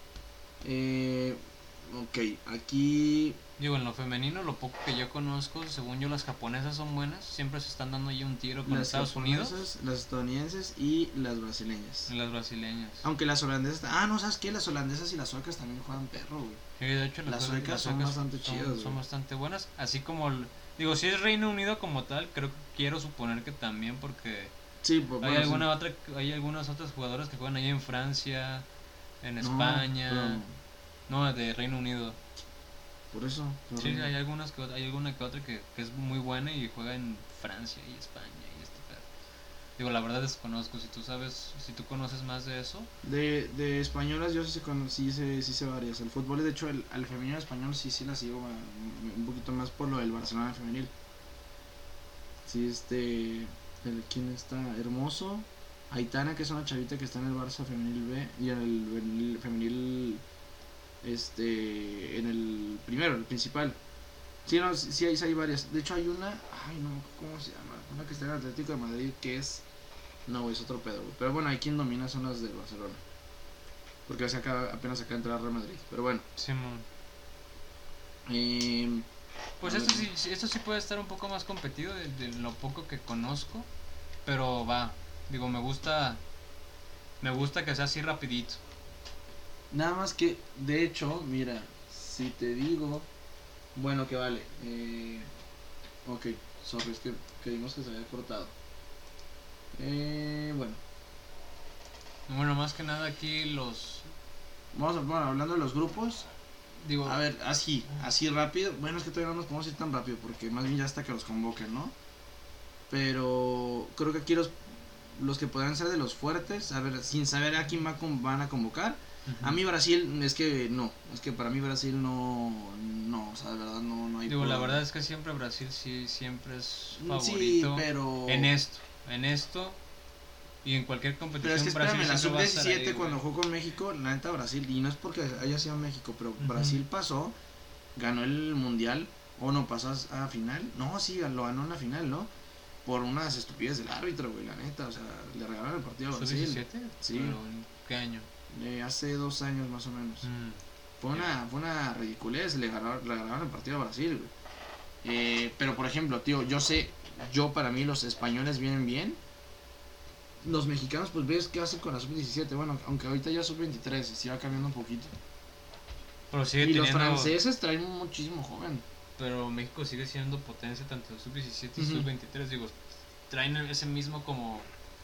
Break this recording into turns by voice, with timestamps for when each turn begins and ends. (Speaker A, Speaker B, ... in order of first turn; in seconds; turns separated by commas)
Speaker A: 0.6-3.4, Speaker B: 3.6-9.6, Speaker A: 8.7-12.1, Speaker B: 12.1-13.1, Speaker A: 13.0-16.6, Speaker B: 16.8-24.5, Speaker A: 17.3-19.0, Speaker A: 24.8-25.7, Speaker B: 25.2-28.7, Speaker B: 29.2-30.4, Speaker A: 29.4-30.5, Speaker B: 31.1-32.2, Speaker A: 33.1-34.1, Speaker B: 33.8-39.1, Speaker B: 39.8-42.9, Speaker A: 43.0-50.9, Speaker A: 52.5-60.2, Speaker A: 61.0-63.8, Speaker A: 64.5-69.6, Speaker A: 70.3-73.0, Speaker A: 74.1-76.2, Speaker B: 76.4-76.9, Speaker A: 78.3-79.1, Speaker B: 79.6-83.7, Speaker A: 79.6-80.1, Speaker B: 84.3-86.2, Speaker B: 87.2-88.6, Speaker A: 89.7-93.1, Speaker A: 93.8-95.3, Speaker A: 96.0-98.5, Speaker A: 99.7-100.8, Speaker B: 102.3-104.1, Speaker A: 104.7-106.3, Speaker B: 106.8-107.2, Speaker A: 107.0-111.9, Speaker A: 112.9-124.8, Speaker B: 119.3-119.6, Speaker B: 124.3-129.8, Speaker A: 127.0-128.5, Speaker B: 130.6-133.2, Speaker A: 131.4-137.3, Speaker B: 136.4-136.8, Speaker A: 138.0-142.3, Speaker A: 142.8-147.4, Speaker B: 146.1-148.3, Speaker A: 148.5-150.2, Speaker B: 150.2-150.6, Speaker A: 151.0-154.3, Speaker B: 151.1-151.4, Speaker A: 155.0-159.2, Speaker A: 160.4-165.1, Speaker B: 166.3-167.4, Speaker A: 166.6-168.8, Speaker B: 169.2-174.7, Speaker A: 171.8-172.1